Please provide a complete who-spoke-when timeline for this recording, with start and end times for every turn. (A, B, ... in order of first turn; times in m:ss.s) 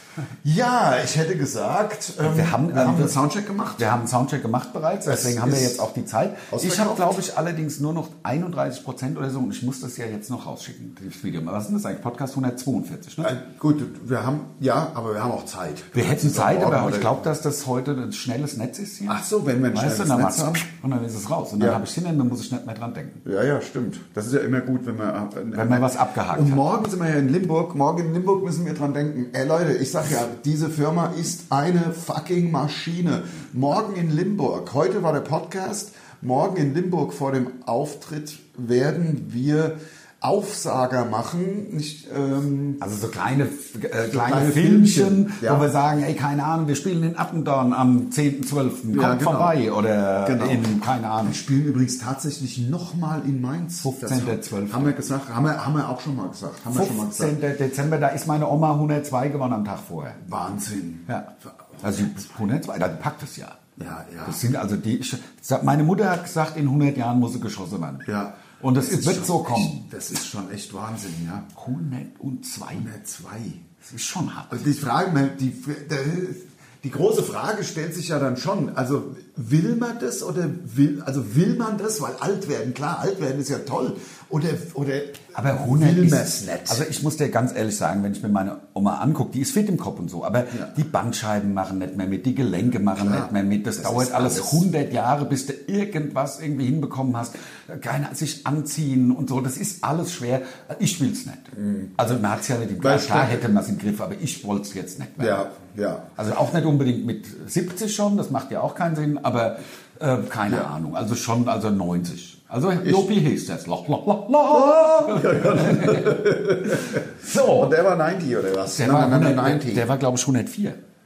0:00.4-0:04.0 A
0:02.2-0:03.2 B
0:03.8-0:13.3 B
0:05.0-0:05.9 A
0:06.5-0:07.2 A
0:13.2-0:17.2 A
0:15.9-0:23.2 B
0:19.1-0:20.7 A
0:23.2-0:42.8 A
0:25.5-0:26.6 B
0:42.8-0:51.4 B
0:44.1-0:45.7 A
0:48.9-0:49.6 A
0:50.2-0:50.7 A
0:51.2-0:57.4 A
0:53.8-0:55.0 B
0:56.7-1:00.2 B
1:00.2-1:01.1 A
1:01.1-1:03.6 B
1:03.8-1:04.4 A
1:04.2-1:09.9 B
1:08.0-1:11.5 A
1:11.5-1:12.9 B
1:12.8-1:13.6 A
1:13.8-1:14.7 B
1:14.5-1:26.8 A
1:25.3-1:45.5 B
1:33.0-1:34.6 A
1:41.6-1:42.0 A
1:42.8-1:43.5 A
1:45.2-1:46.1 A
1:46.2-1:57.7 B
1:52.8-1:53.1 A
1:54.5-1:59.9 A
1:58.7-2:00.8 B